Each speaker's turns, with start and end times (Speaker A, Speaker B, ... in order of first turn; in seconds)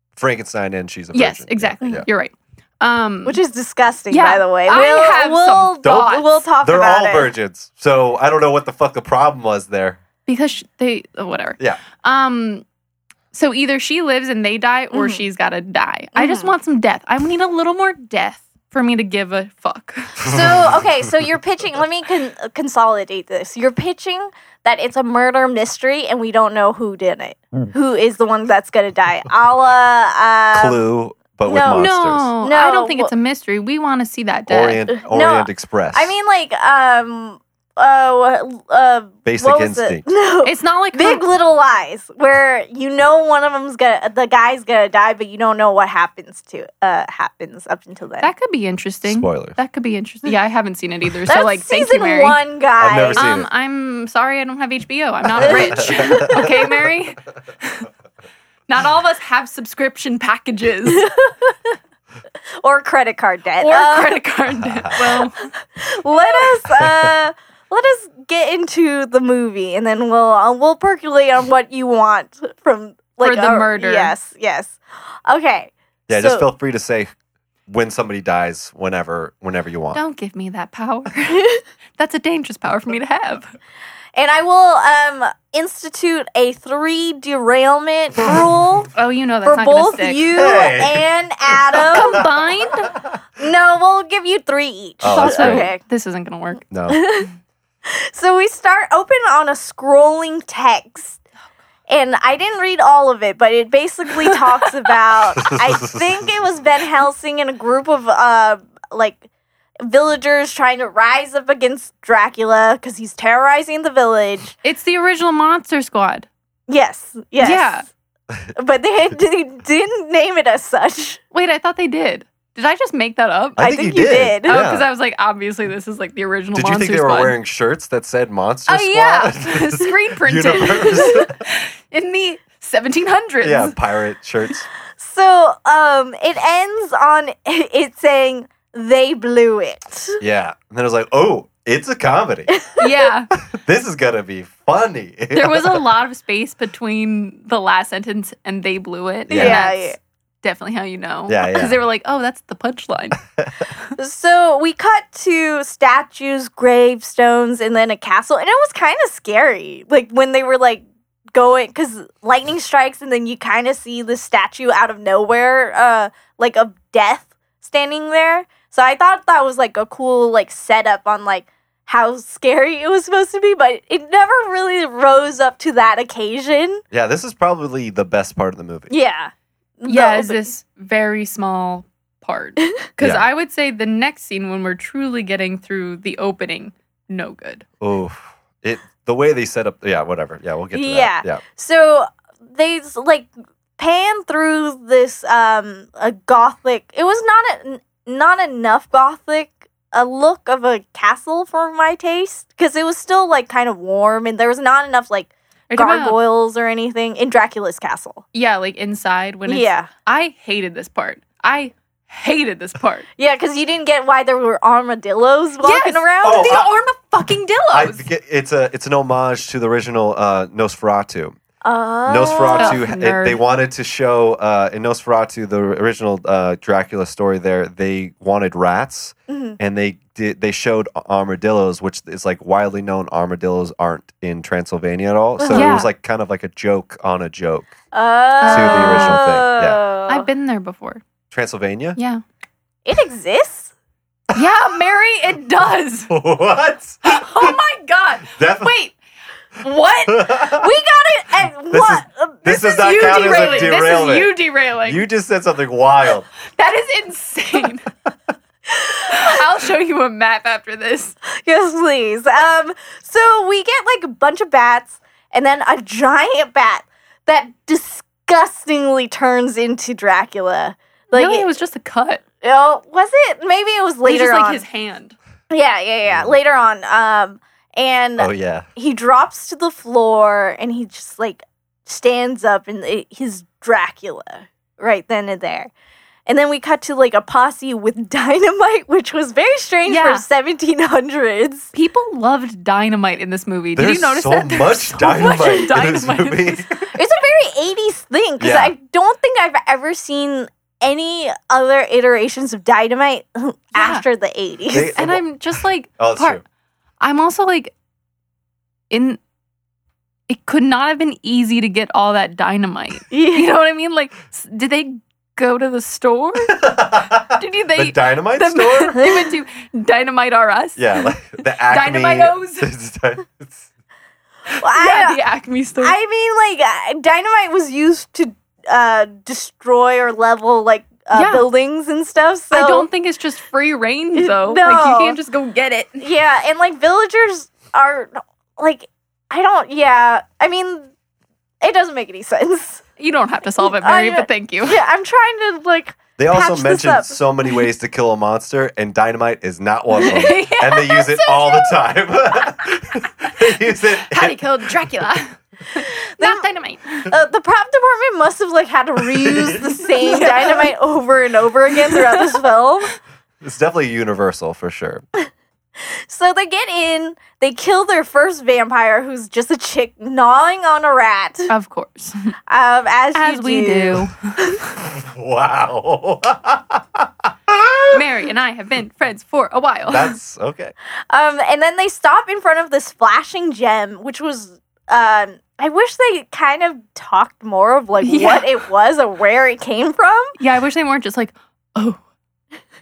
Speaker A: 0.2-2.1, 5.8-10.0, 20.2-20.8, 30.5-32.3, 34.5-36.1, 39.3-40.0, 49.0-49.6, 52.8-53.5, 55.4-56.4, 64.5-65.0, 66.8-67.2, 76.1-77.1, 77.7-80.0, 90.4-91.0, 91.7-92.3, 95.0-95.7, 96.7-97.0, 105.4-106.3, 123.6-124.8, 126.5-131.4, 133.4-134.7, 140.2-142.5, 143.4-145.9, 149.3-149.7, 151.3-151.8, 153.4-153.6, 176.9-178.9, 183.0-183.3, 187.8-191.4, 216.2-216.7, 217.7-221.4, 222.1-237.7, 238.5-239.8, 241.3-242.0, 246.1-247.6, 248.3-248.7, 250.1-250.7, 251.7-256.3, 276.1-276.4, 278.2-278.7, 293.8-296.9, 298.4-298.7, 304.7-306.4, 316.5-319.0, 320.8-323.7, 346.2-354.4, 359.1-359.8, 363.4-365.0, 374.8-378.0, 379.9-380.7
Speaker B: 1.1-3.4, 4.1-6.4, 10.3-12.7, 13.3-20.4, 31.6-34.9, 40.4-41.2, 48.2-52.4, 53.2-57.9, 58.7-61.1, 63.6-65.5, 73.2-74.1, 79.9-83.5, 88.9-90.6, 91.8-93.0, 95.1-96.7, 114.6-116.3, 117.4-117.9, 121.3-123.6, 124.5-127.4, 128.7-133.8, 142.8-143.3, 145.3-153.2, 179.9-187.7, 205.7-206.2, 208.3-213.1, 215.6-218.1, 222.6-223.4, 235.5-235.9, 238.4-239.2, 240.1-241.0, 242.0-242.2, 244.3-246.1, 247.0-249.0, 249.6-250.3, 252.6-255.0, 256.6-257.9, 259.0-261.1, 271.1-272.2, 274.1-275.2, 289.9-290.2, 291.7-296.6, 303.8-304.0, 305.0-306.4, 307.0-307.7, 308.9-309.2, 310.3-316.6, 317.3-322.7, 324.7-326.0, 331.1-331.5, 332.5-336.1, 343.0-344.8, 349.9-351.9, 353.3-357.1, 360.1-360.7, 361.9-362.3, 371.5-372.3, 373.1-374.6, 377.9-380.2, 388.0-388.5, 390.4-392.0
Speaker C: 3.2-7.3, 14.9-15.2, 16.1-16.5, 20.2-30.8, 31.4-31.9, 32.4-33.1, 34.9-48.3, 51.3-53.3, 55.4-56.5, 60.9-61.7, 62.6-64.2, 65.8-76.5, 84.2-88.9, 89.5-92.2, 93.4-95.8, 96.9-97.3, 97.9-101.2, 101.9-109.2, 109.8-114.5, 116.7-117.8, 118.6-121.2, 123.6-124.6, 135.0-140.2, 142.5-142.8, 149.3-150.0, 154.0-160.8, 161.3-176.8, 178.9-180.5, 190.7-208.2, 209.5-209.9, 213.2-216.6, 221.6-222.8, 229.3-229.6, 235.4-235.8, 237.9-240.3, 242.8-243.7, 250.5-253.4, 258.8-259.4, 261.4-271.5, 272.4-274.6, 275.5-285.7, 286.3-291.7, 296.9-305.0, 313.1-313.5, 318.9-319.3, 324.6-325.2, 325.8-332.9, 334.1-335.2, 336.0-340.9, 341.6-342.8, 343.6-347.2, 356.2-356.4, 357.1-362.9, 365.8-371.5, 372.5-374.6, 381.1-390.3